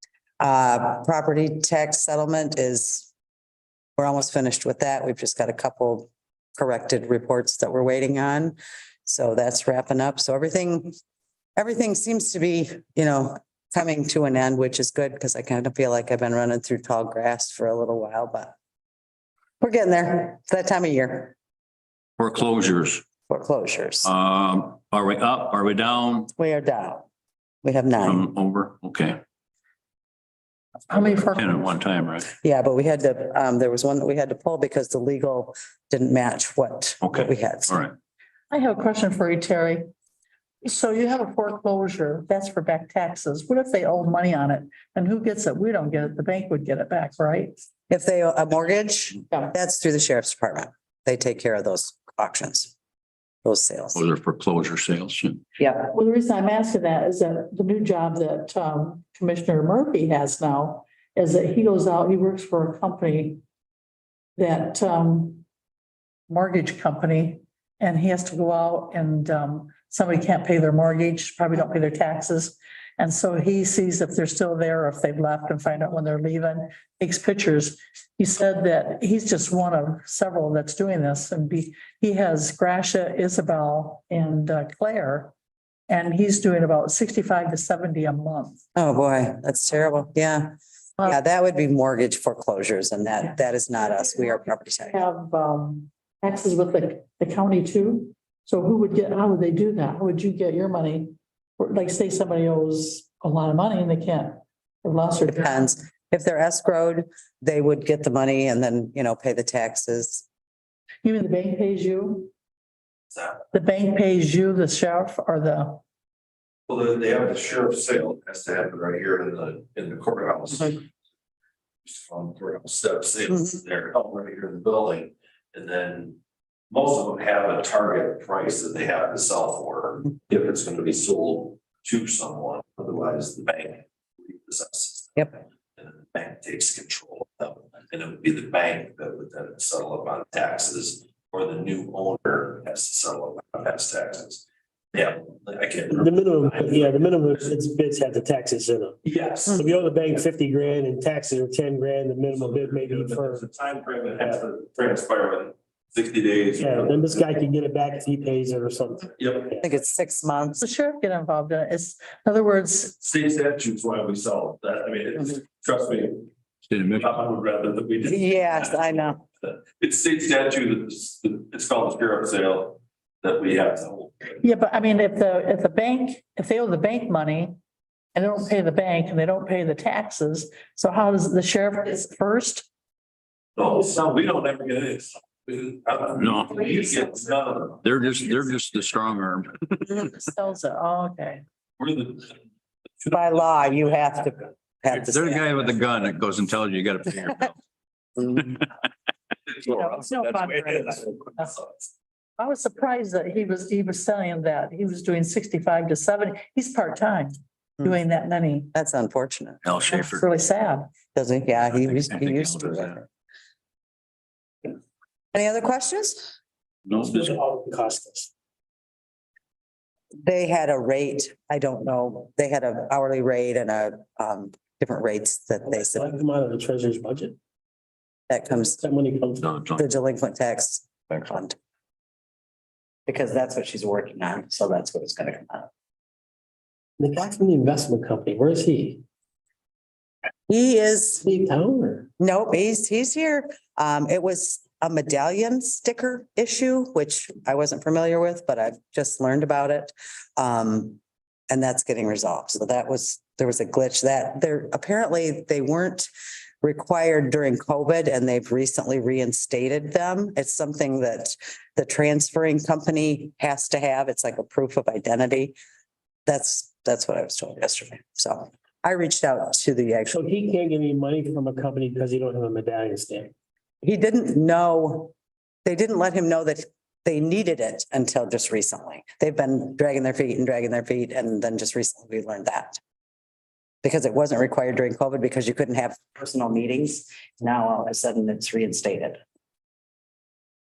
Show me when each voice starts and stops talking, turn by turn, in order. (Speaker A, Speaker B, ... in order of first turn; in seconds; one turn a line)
Speaker A: 0.4-3.1
Speaker A: 4.0-10.9
Speaker A: 11.6-18.5
Speaker A: 19.6-21.3
Speaker B: 22.2-23.0
Speaker A: 23.3-24.1
Speaker B: 24.0-26.3
Speaker A: 26.4-27.0
Speaker A: 27.6-28.2
Speaker B: 28.0-29.2
Speaker C: 30.9-31.2
Speaker B: 31.2-32.3
Speaker A: 32.4-37.9
Speaker B: 37.0-37.9
Speaker C: 38.5-39.8
Speaker C: 40.6-47.5
Speaker A: 47.9-52.7
Speaker A: 53.4-54.0
Speaker B: 53.9-55.4
Speaker A: 55.6-55.9
Speaker C: 55.9-63.4
Speaker C: 64.4-65.4
Speaker C: 66.3-85.3
Speaker C: 85.9-88.6
Speaker A: 88.8-95.0
Speaker C: 94.9-104.3
Speaker C: 104.8-105.6
Speaker A: 105.3-110.2
Speaker C: 111.0-112.3
Speaker D: 113.1-113.5
Speaker C: 113.5-115.8
Speaker D: 116.7-120.8
Speaker D: 121.8-126.2
Speaker A: 123.3-123.6
Speaker D: 126.7-147.5
Speaker E: 145.9-153.4
Speaker D: 149.0-149.8
Speaker D: 152.3-157.3
Speaker E: 156.6-159.6
Speaker D: 159.2-159.6
Speaker A: 159.6-160.6
Speaker C: 160.6-162.8
Speaker D: 162.9-166.3
Speaker B: 166.7-167.2
Speaker D: 167.0-174.4
Speaker A: 168.0-169.2
Speaker C: 174.4-177.5
Speaker C: 178.1-182.7
Speaker D: 183.6-187.8
Speaker B: 186.1-186.7
Speaker B: 187.8-190.0
Speaker C: 190.3-191.4
Speaker D: 191.8-192.3
Speaker D: 193.0-193.4
Speaker A: 193.1-195.7
Speaker B: 194.9-197.6
Speaker A: 198.2-198.6
Speaker D: 199.5-201.8
Speaker B: 199.7-200.2
Speaker C: 199.8-200.7
Speaker C: 202.4-207.3
Speaker C: 207.8-208.6
Speaker A: 208.7-209.7
Speaker B: 209.6-210.3
Speaker C: 209.8-210.8
Speaker A: 211.1-213.0
Speaker B: 211.8-213.0
Speaker A: 215.3-216.3
Speaker B: 216.9-217.2
Speaker E: 216.9-218.3
Speaker A: 220.2-226.1
Speaker E: 225.7-227.4
Speaker A: 228.3-228.8
Speaker E: 228.5-229.5
Speaker B: 229.4-229.8
Speaker A: 229.7-231.6
Speaker A: 233.1-235.7
Speaker E: 237.0-239.0
Speaker A: 240.5-241.2
Speaker E: 241.2-242.1
Speaker A: 242.2-251.0
Speaker A: 251.5-256.1
Speaker A: 256.6-265.6
Speaker A: 266.3-270.2
Speaker E: 270.1-273.3
Speaker A: 273.8-275.1
Speaker A: 275.6-282.8
Speaker A: 283.8-289.2